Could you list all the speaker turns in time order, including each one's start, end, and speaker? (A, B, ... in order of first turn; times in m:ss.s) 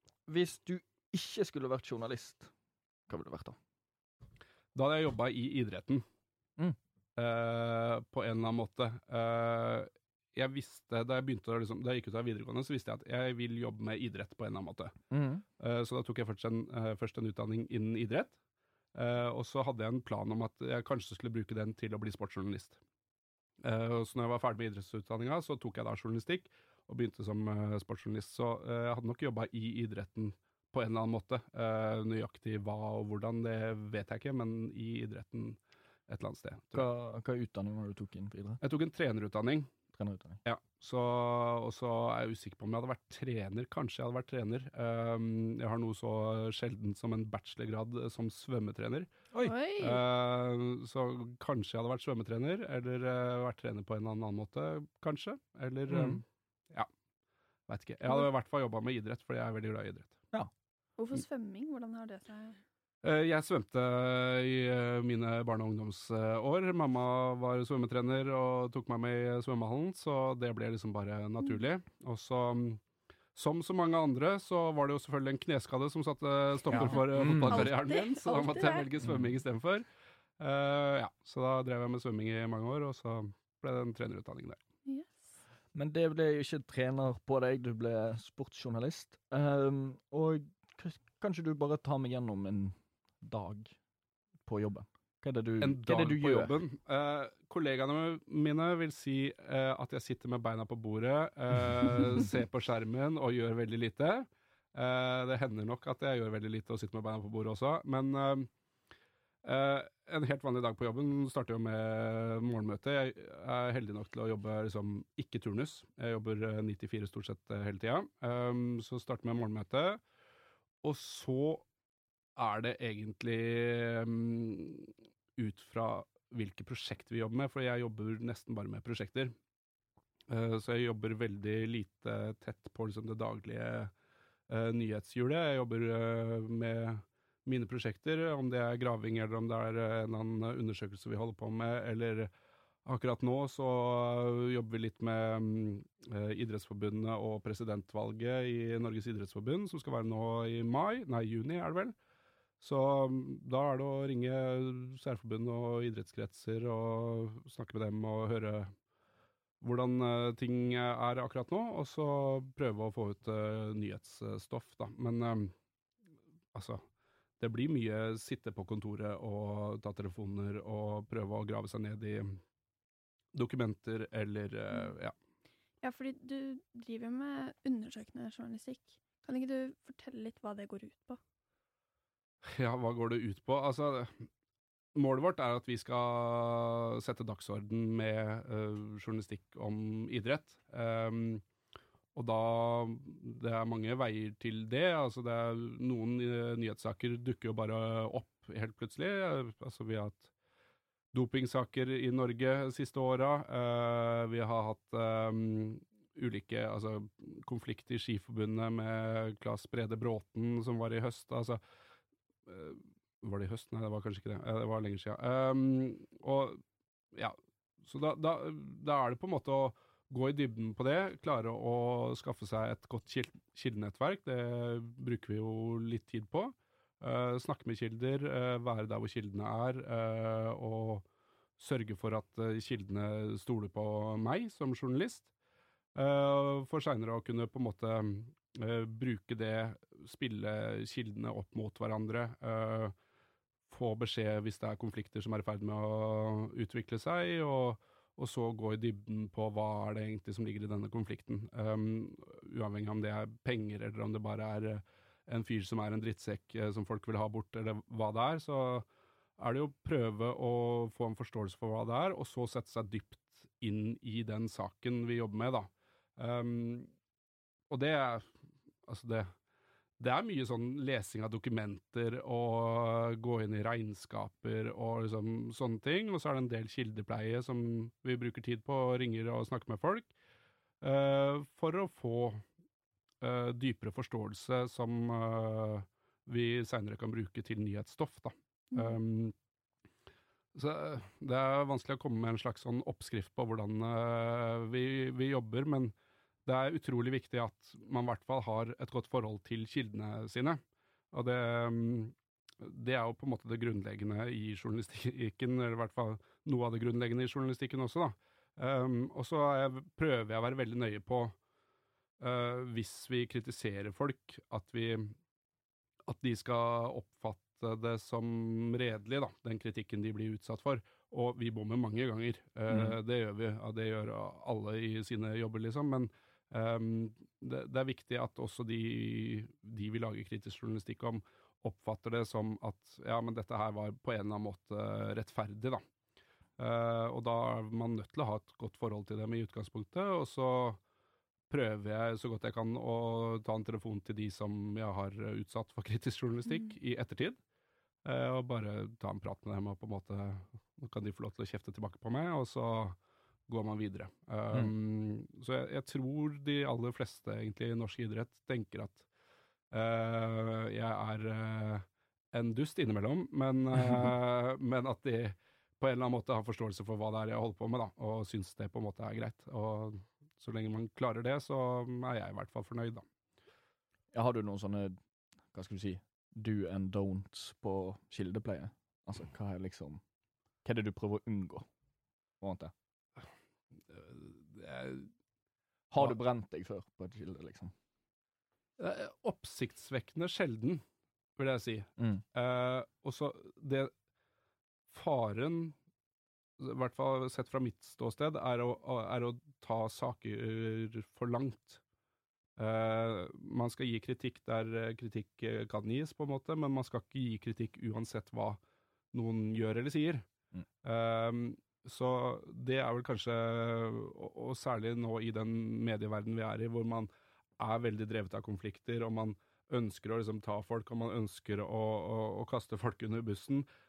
0:00.3-0:02.5 A
0:03.1-0:03.6 A
0:04.7-0:06.0 B
0:07.2-0:14.9 B
0:15.1-0:15.4 A
0:15.6-0:18.4 B
0:18.9-0:22.8 B
0:23.6-0:36.8 B
0:36.7-0:38.6 A
0:38.6-0:39.7 B
0:39.9-0:40.4 A
0:40.4-0:49.2 B
0:49.4-0:50.0 C
0:49.8-0:56.9 B
0:55.9-0:56.2 A
0:57.7-1:00.2 B
1:01.0-1:02.6 C
1:03.0-1:12.8 B
1:13.3-1:19.8 B
1:16.7-1:17.7 A
1:16.7-1:18.9 C
1:19.0-1:19.3 A
1:20.4-1:24.6 B
1:24.8-1:25.3 C
1:25.7-1:33.8 A
1:34.4-1:36.6 A
1:35.6-1:48.5 B
1:49.4-2:00.0 B
2:00.8-2:01.6 B
2:02.4-2:09.3 B
2:10.3-2:13.9 B
2:14.5-2:22.3 B
2:22.8-2:31.9 B
2:32.6-2:38.7 B
2:39.6-2:45.5 B
2:46.5-2:46.8 B
2:47.4-2:52.4 B
2:53.3-2:55.1 B
2:55.8-3:01.2 C
3:02.4-3:04.2 B
3:04.9-3:11.4 B
3:12.1-3:20.3 B
3:21.1-3:31.6 B
3:32.4-3:36.6 B
3:37.1-3:51.0 B
3:51.6-3:55.3 B
3:55.9-4:02.9 B
4:03.7-4:18.8 B
4:19.4-4:26.9 B
4:27.7-4:28.3 B
4:28.8-4:29.3 B
4:30.0-4:40.1 B
4:40.8-4:42.4 B
4:43.2-4:49.3 B
4:50.5-4:55.9 B
4:56.4-5:00.6 B
5:01.1-5:11.3 B
5:12.2-5:15.1 B
5:16.0-5:35.8 B
5:22.7-5:23.0 A
5:36.6-5:40.8 B
5:41.5-5:47.4 B
5:48.0-5:53.0 B
5:53.5-5:59.0 B
5:59.7-6:13.0 B
6:14.1-6:15.0 A
6:15.5-6:20.0 A
6:20.6-6:21.6 A
6:22.4-6:22.7 A
6:23.9-6:25.1 B
6:25.9-6:27.7 A
6:28.8-6:30.8 B
6:31.4-6:33.9 B
6:32.0-6:32.2 A
6:34.9-6:35.7 B
6:36.6-6:41.8 B
6:42.6-6:48.6 B
6:49.1-6:50.2 B
6:50.8-7:03.6 B